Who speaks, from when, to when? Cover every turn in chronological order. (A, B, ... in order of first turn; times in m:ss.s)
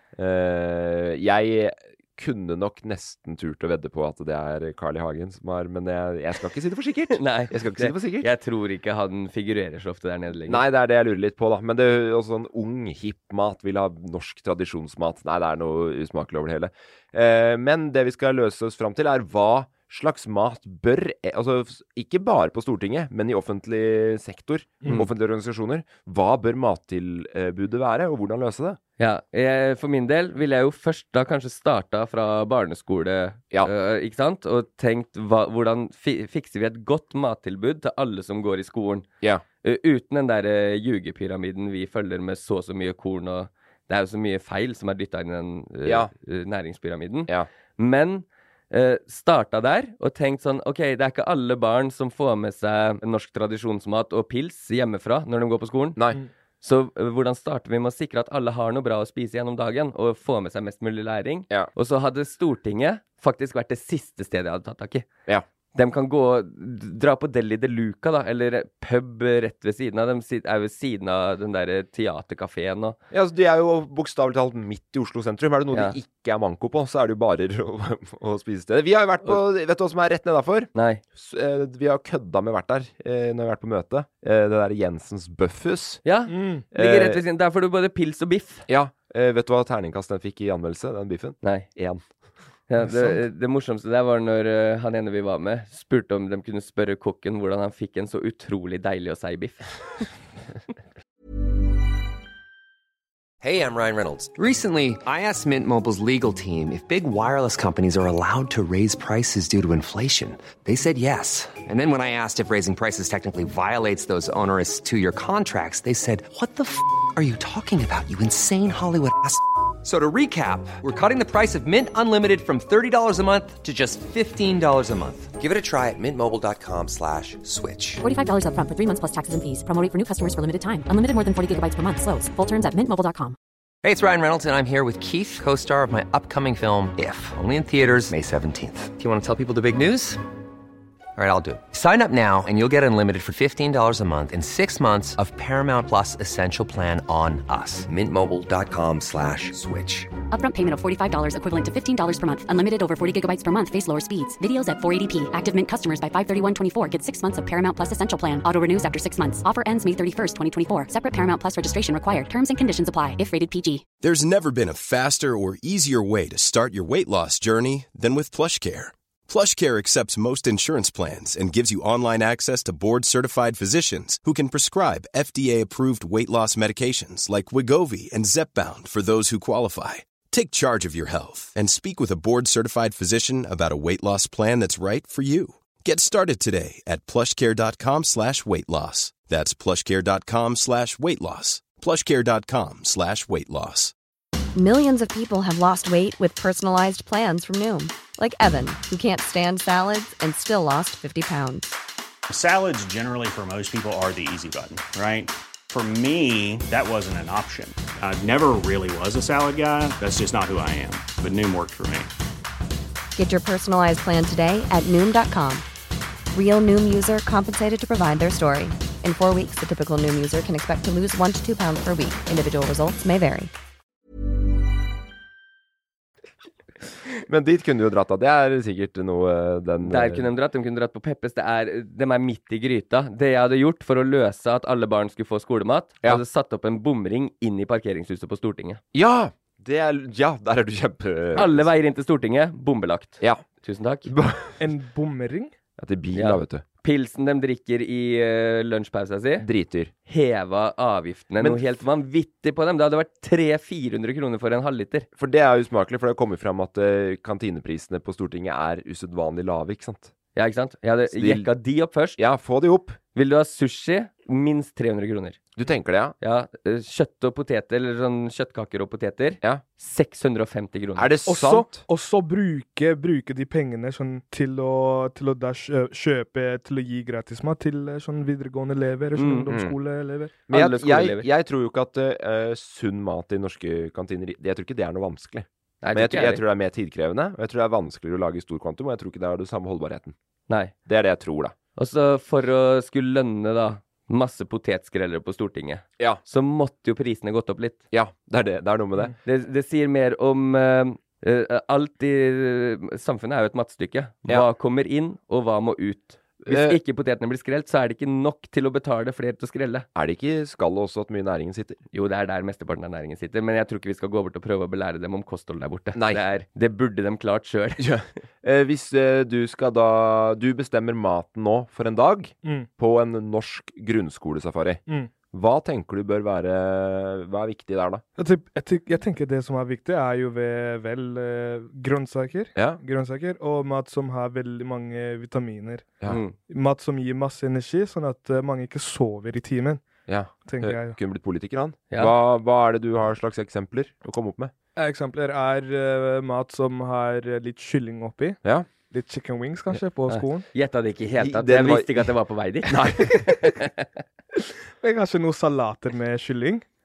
0:00.2-0:08.3 A
0:07.1-0:10.6 B
0:10.5-0:28.8 A
0:29.0-0:39.1 B
0:39.6-0:56.0 B
0:45.8-0:46.1 A
0:56.6-1:05.1 B
1:05.8-1:13.0 B
1:13.1-1:26.0 A
1:20.8-1:21.0 B
1:26.0-1:28.6 B
1:26.3-1:26.6 C
1:26.7-1:27.2 A
1:28.7-1:32.0 A
1:31.4-1:31.7 B
1:32.7-1:39.7 B
1:43.4-2:08.0 D
2:08.0-2:13.4 E
2:13.8-2:20.2 D
2:21.2-2:30.1 D
2:30.3-2:43.9 E
2:44.0-3:13.9 F
3:14.6-3:21.7 G
3:22.3-3:32.1 H
3:33.2-3:35.6 G
3:36.3-3:43.5 G
3:47.3-3:50.3 A
3:49.8-3:58.8 B
3:58.9-4:01.7 A
4:01.4-4:04.1 B
4:04.1-4:04.6 A
4:04.6-4:05.5 C
4:05.8-4:06.6 A
4:06.1-4:09.5 B
4:09.4-4:09.9 A
4:10.1-4:15.1 B
4:11.4-4:11.6 A
4:15.2-4:20.1 A
4:20.4-4:22.2 B
4:21.1-4:21.5 A
4:22.2-4:23.0 A
4:23.1-4:25.4 B
4:25.6-4:26.2 A
4:26.2-4:31.1 B
4:31.0-4:31.8 A
4:31.3-4:40.3 C
4:39.2-4:39.5 B
4:40.5-4:50.2 A
4:40.5-4:41.3 B
4:45.8-4:46.4 B
4:50.5-4:50.7 B
4:50.9-4:51.6 A
4:51.8-4:57.8 B
4:57.9-4:59.1 A
4:59.2-5:09.9 B
5:06.4-5:06.8 A
5:10.0-5:11.8 A
5:11.9-5:17.9 B
5:16.0-5:16.2 A
5:17.8-5:24.8 A
5:25.3-5:28.0 A
5:28.2-5:35.9 C
5:36.1-5:36.4 B
5:36.5-5:39.8 C
5:40.1-5:44.5 A
5:40.5-5:41.0 C
5:44.8-5:50.5 C
5:50.1-5:53.9 B
5:51.2-5:52.1 A
5:52.7-5:53.3 A
5:54.8-5:56.6 C